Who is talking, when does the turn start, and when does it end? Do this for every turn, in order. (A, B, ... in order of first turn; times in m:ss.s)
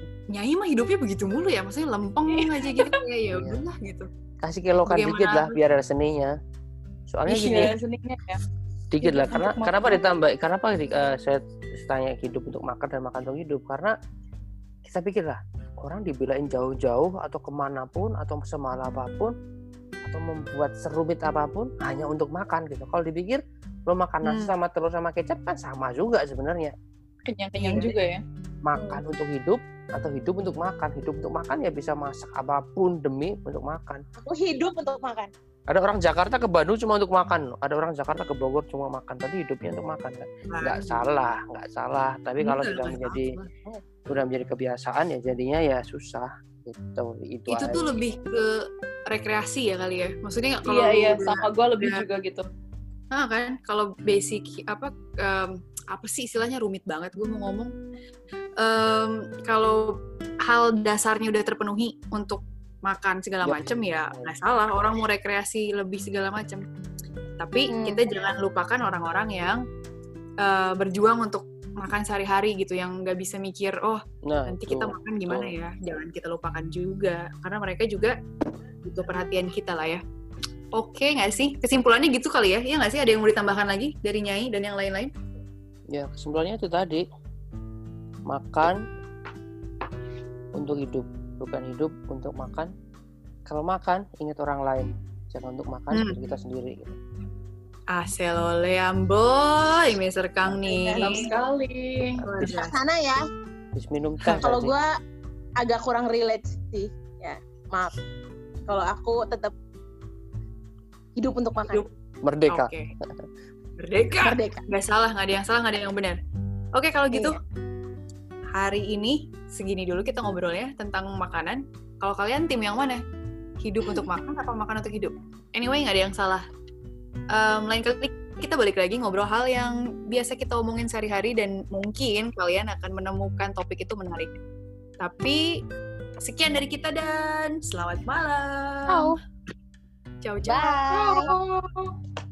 0:00.3-0:04.1 A
0:02.4-0:03.0 B
0:03.3-0:03.6 C
0:04.4-0:06.4 C
0:04.9-0:05.6 A
0:07.1-0:07.8 C
0:07.3-0:08.4 B
0:08.9-0:13.9 C
0:09.0-0:10.0 B
0:14.8-0:19.3 C
0:20.0-0:26.7 C
0:24.2-0:24.6 A
0:27.3-0:28.2 B
0:28.6-0:34.0 C
0:28.8-0:29.0 D
0:34.2-0:35.3 D
0:35.7-0:43.4 C
0:40.5-0:41.0 A
0:42.4-0:43.5 A
0:44.1-0:47.8 C
0:47.5-0:52.0 A
0:50.7-0:52.4 B
0:53.1-0:57.7 A
0:58.6-1:06.6 A
1:03.4-1:04.3 C
1:07.4-1:09.6 A
1:07.7-1:08.0 D
1:10.4-1:18.2 A
1:14.2-1:15.6 C
1:18.8-1:20.0 A
1:20.7-1:25.1 A
1:25.9-1:27.0 C
1:28.3-1:28.8 C
1:30.5-1:32.7 C
1:33.5-1:37.0 C
1:35.9-1:36.2 A
1:37.9-1:41.3 A
1:40.6-1:41.3 D
1:40.9-1:42.2 B
1:42.2-1:42.8 A
1:42.3-1:43.2 D
1:43.8-1:44.7 C
1:44.4-1:44.9 D
1:45.6-1:48.0 D
1:48.7-1:49.5 D
1:51.2-1:51.9 D
1:52.2-1:52.7 C
1:52.5-1:52.9 A
1:53.8-1:56.2 A
1:54.2-1:54.6 D
1:56.7-1:57.4 A
1:57.1-1:57.4 D
1:58.5-2:03.0 A
2:03.6-2:06.5 A
2:07.3-2:14.4 A
2:15.0-2:15.5 A
2:16.2-2:19.1 A
2:18.9-2:19.2 D
2:20.2-2:20.9 A
2:20.4-2:21.3 D
2:20.9-2:21.8 B